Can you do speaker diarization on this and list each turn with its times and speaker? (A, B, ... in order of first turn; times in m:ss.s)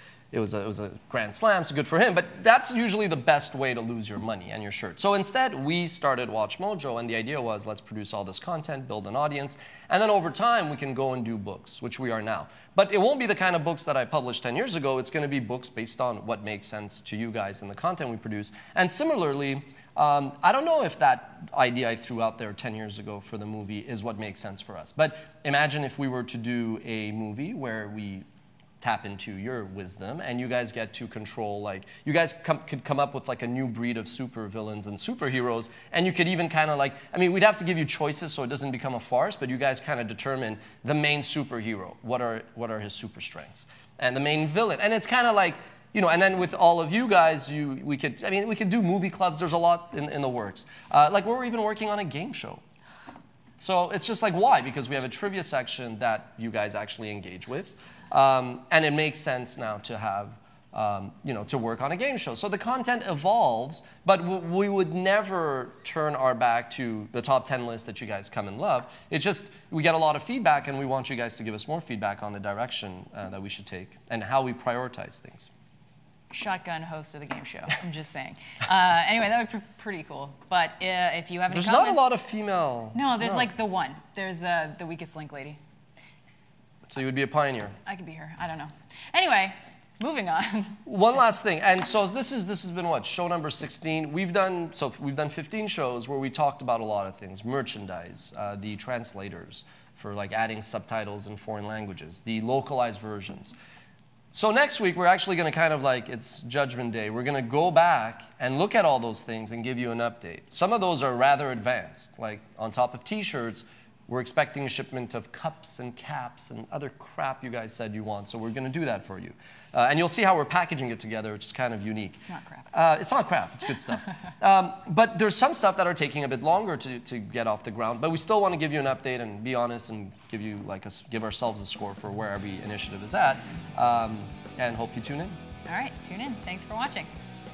0:00.3-0:28.2 A
0:28.8-0:52.6 A
0:53.6-1:15.5 A
1:16.3-1:22.0 B
1:21.5-1:23.5 A
1:22.9-1:25.6 B
1:26.9-1:27.8 A
1:27.8-1:30.8 B
1:30.8-1:43.5 A
1:44.3-2:15.4 A
2:02.2-2:02.7 B
2:15.6-2:17.1 B